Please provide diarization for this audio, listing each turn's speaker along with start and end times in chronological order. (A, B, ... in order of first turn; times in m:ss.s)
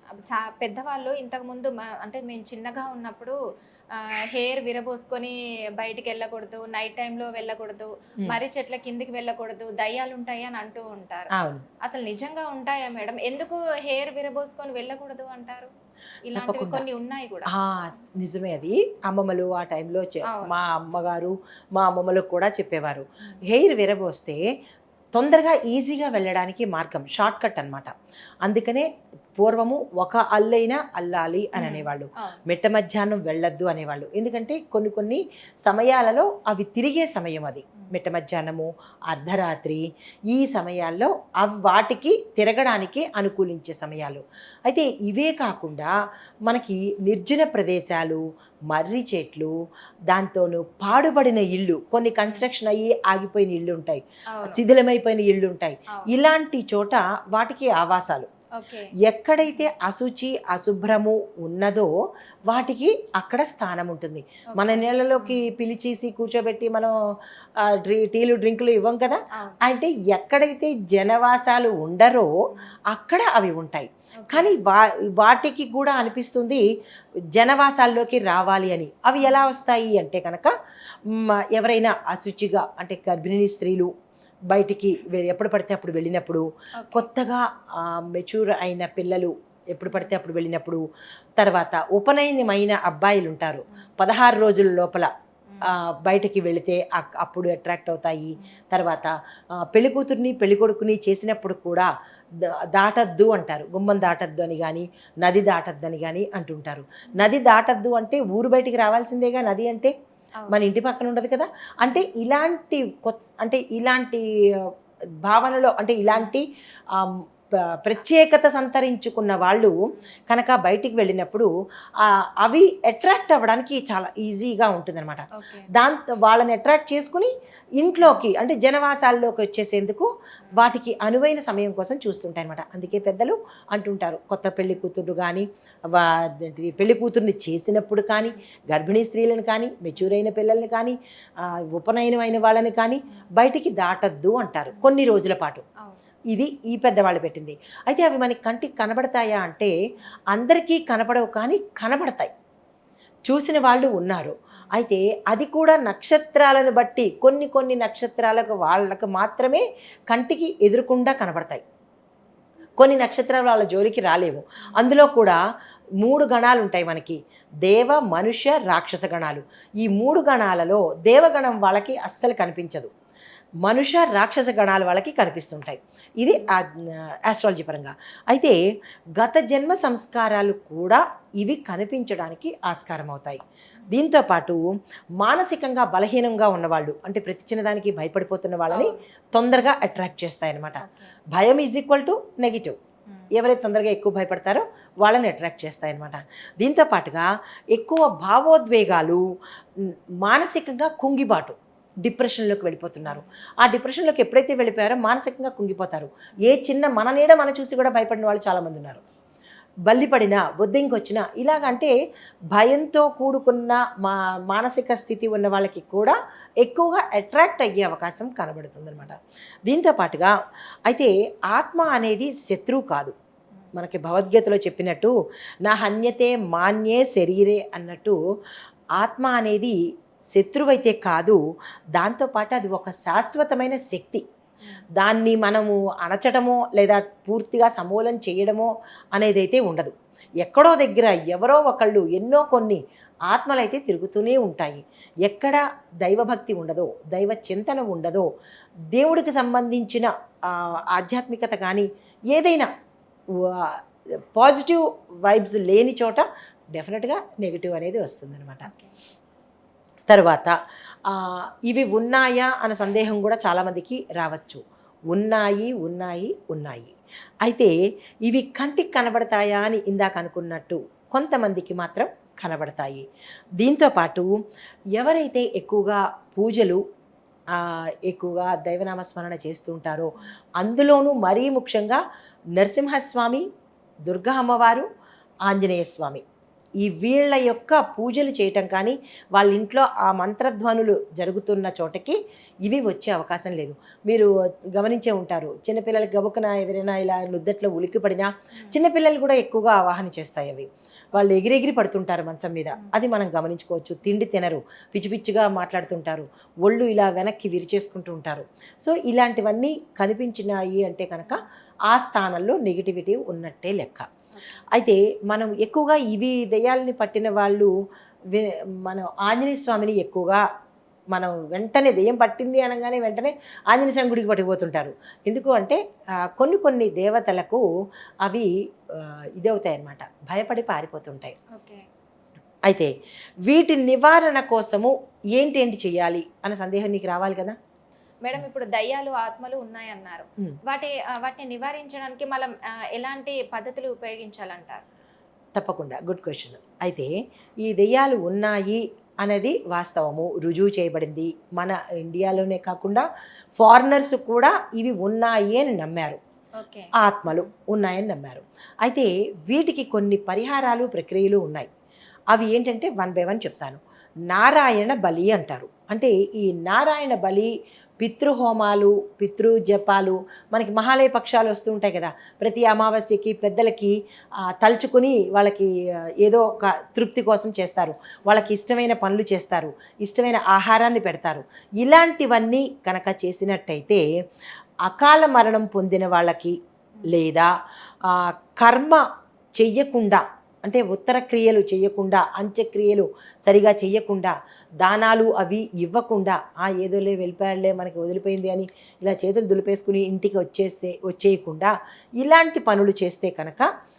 0:00.1-0:03.4 A
0:04.0-0:11.3 A
0:11.4-0:11.6 B
0:11.8-0:15.7 A
0:16.3-0:17.5 A
0:16.3-0:16.8 B
0:17.5-0:24.4 B
0:20.3-0:20.5 A
0:25.1-0:27.9 B
0:28.4-0:45.9 B
0:31.6-0:32.4 A
0:46.5-0:48.2 B
0:48.7-0:49.5 B
0:50.1-0:58.3 B
0:54.3-0:54.6 A
0:58.6-0:59.7 A
0:59.0-1:01.9 B
1:02.5-1:06.9 B
1:04.5-1:05.4 A
1:07.7-1:12.3 B
1:12.9-1:16.6 B
1:14.2-1:14.5 A
1:17.4-1:20.5 B
1:19.2-1:19.5 A
1:21.1-1:23.9 B
1:24.5-1:30.8 B
1:26.8-1:27.1 A
1:29.9-1:30.1 A
1:31.4-1:35.1 B
1:35.5-1:35.7 A
1:35.7-1:39.1 B
1:39.7-1:41.9 B
1:42.4-1:49.9 B
1:50.5-1:54.2 B
1:55.2-1:56.4 B
1:57.8-1:59.7 B
2:00.3-2:01.5 B
2:02.0-2:07.3 B
2:05.4-2:05.7 A
2:07.8-2:25.6 B
2:24.7-2:25.0 A
2:26.3-2:29.7 B
2:30.3-2:32.3 B
2:33.3-2:41.6 B
2:42.8-2:45.4 B
2:46.0-2:52.9 B
2:53.6-2:56.6 B
2:57.3-2:58.6 B
2:59.2-3:04.6 B
3:05.2-3:10.8 B
3:08.7-3:09.0 A
3:10.8-3:11.1 A
3:11.3-3:12.8 B
3:13.3-3:19.2 B
3:19.8-3:29.0 B
3:23.0-3:23.4 A
3:29.9-3:31.9 B
3:32.5-3:39.2 B
3:39.7-3:40.3 B
3:40.9-3:43.1 B
3:43.8-3:45.1 B
3:45.6-3:48.2 B
3:49.0-3:49.7 B
3:50.3-3:51.4 B
3:52.0-3:54.2 B
3:55.0-4:08.2 B
4:08.9-4:12.7 B
4:13.4-4:13.8 B
4:14.4-4:18.7 B
4:18.6-4:19.0 A
4:20.1-4:20.5 B
4:21.1-4:24.6 B
4:25.1-4:26.9 B
4:27.4-4:27.7 B
4:28.2-4:33.0 B
4:33.6-4:34.3 B
4:35.0-4:36.8 B
4:37.5-4:42.0 B
4:42.6-4:43.4 B
4:44.1-4:44.9 B
4:45.5-4:46.2 B
4:46.8-4:54.3 B
4:54.8-5:14.1 B
5:14.3-5:14.6 A
5:14.7-5:17.7 B
5:18.3-5:20.4 B
5:21.1-5:27.6 B
5:28.2-5:31.4 B
5:31.5-5:31.8 A
5:33.5-5:37.6 B
5:38.2-5:44.8 A
5:45.5-5:47.1 B
5:47.6-5:53.0 B
5:53.6-5:56.2 B
5:56.6-5:56.9 A
5:57.0-6:01.7 B
6:02.3-6:13.9 B
6:14.6-6:15.7 B
6:16.2-6:24.0 B
6:24.8-6:27.5 B
6:28.1-6:29.0 B
6:29.6-6:43.7 B